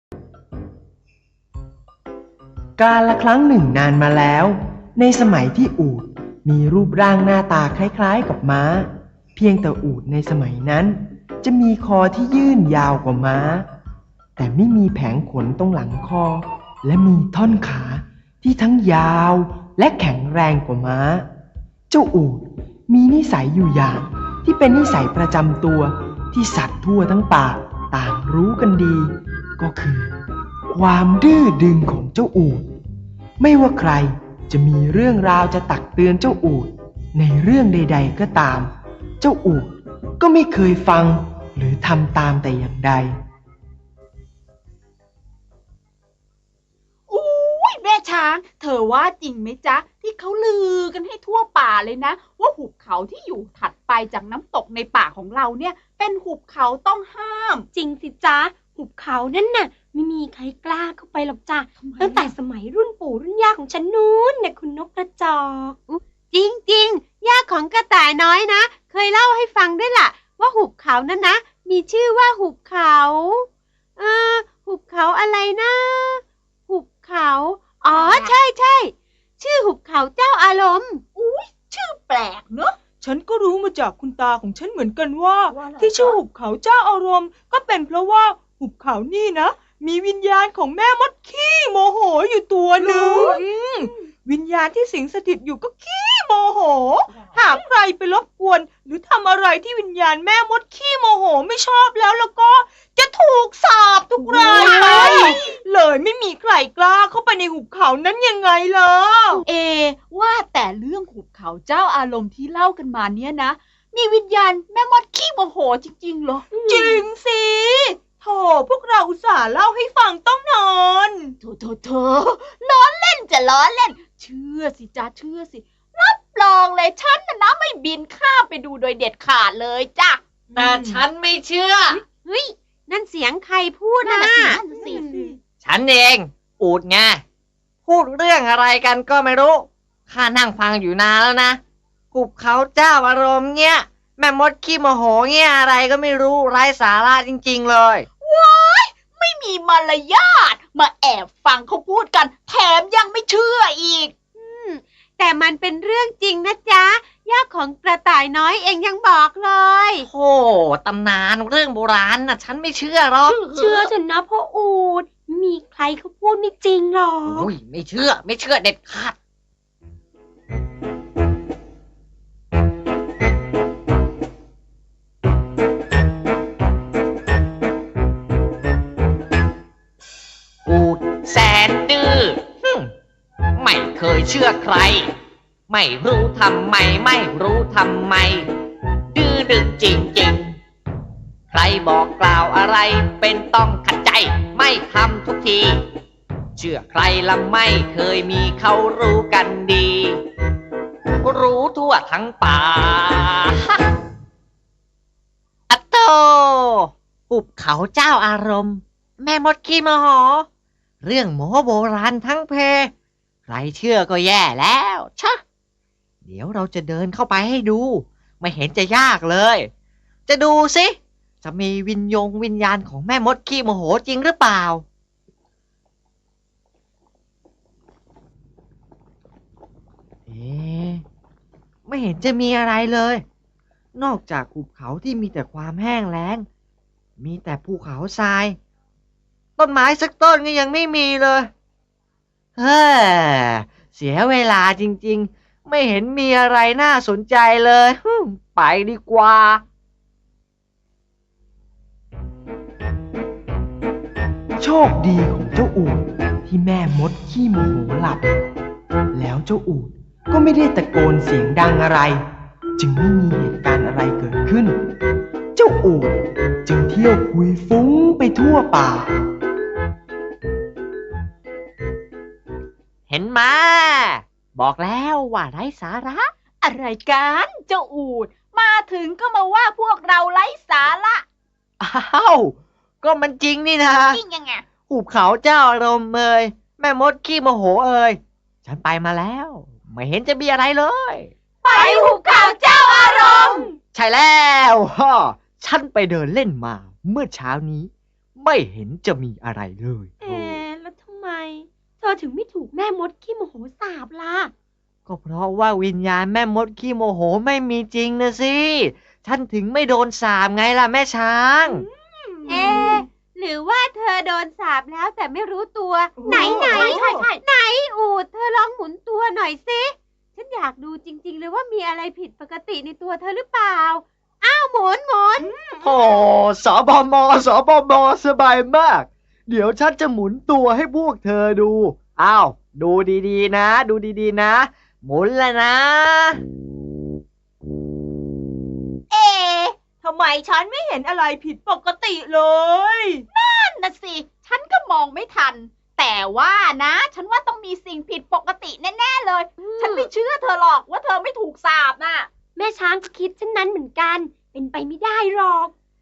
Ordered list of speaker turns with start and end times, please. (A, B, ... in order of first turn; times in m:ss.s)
0:02.8-0:13.6 A
0:14.4-0:21.2 A
0:21.9-0:30.1 A
0:30.7-0:32.7 A
0:33.4-0:43.1 A
0:47.1-0:57.7 B
0:57.7-1:05.8 C
1:01.8-1:02.3 B
1:05.9-1:21.0 D
1:17.9-1:18.3 B
1:21.2-1:22.8 B
1:23.0-1:49.4 E
1:25.5-1:26.2 B
1:32.9-1:33.3 C
1:44.2-1:45.4 B
1:49.4-1:56.5 B
1:56.5-1:57.0 C
1:56.7-2:01.4 E
2:01.4-2:10.2 B
2:10.5-2:11.0 E
2:10.5-2:12.0 F
2:12.0-2:15.2 D
2:14.0-2:15.2 B
2:15.6-2:17.2 F
2:17.8-2:21.6 F
2:22.1-2:28.0 F
2:28.2-2:34.1 B
2:34.4-2:40.1 D
2:40.0-2:43.9 F
2:43.2-2:47.5 C
2:47.2-2:49.1 F
3:00.6-3:02.9 F
3:03.6-3:05.1 F
3:05.7-3:08.5 F
3:09.1-3:10.6 F
3:11.5-3:15.8 F
3:16.6-3:20.2 F
3:21.2-3:23.6 F
3:25.7-3:30.5 F
3:31.0-3:32.9 F
3:33.5-3:35.4 F
3:36.2-3:39.7 F
3:40.3-3:44.8 F
3:50.3-3:51.0 F
3:51.9-3:53.2 F
3:53.9-3:56.4 F
3:57.2-3:58.6 F
3:59.6-4:01.5 F
4:02.6-4:09.6 F
4:14.6-4:18.2 A
4:19.1-4:22.2 A
4:22.8-4:24.7 A
4:25.6-4:29.1 A
4:33.1-4:36.3 F
4:36.6-4:41.2 B
4:41.8-4:44.2 F
4:44.1-4:44.6 B
4:44.9-4:51.3 F
4:51.6-4:53.7 C
4:51.6-4:53.7 B
4:53.9-5:00.6 F
5:00.2-5:04.5 C
5:05.1-5:11.8 F
5:12.5-5:25.6 D
5:16.2-5:16.8 E
5:16.2-5:17.3 B
5:25.8-5:36.4 F
5:39.1-5:39.8 B
5:40.0-5:43.2 E
5:43.3-5:52.3 B
5:49.6-5:50.1 C
5:52.6-5:55.7 C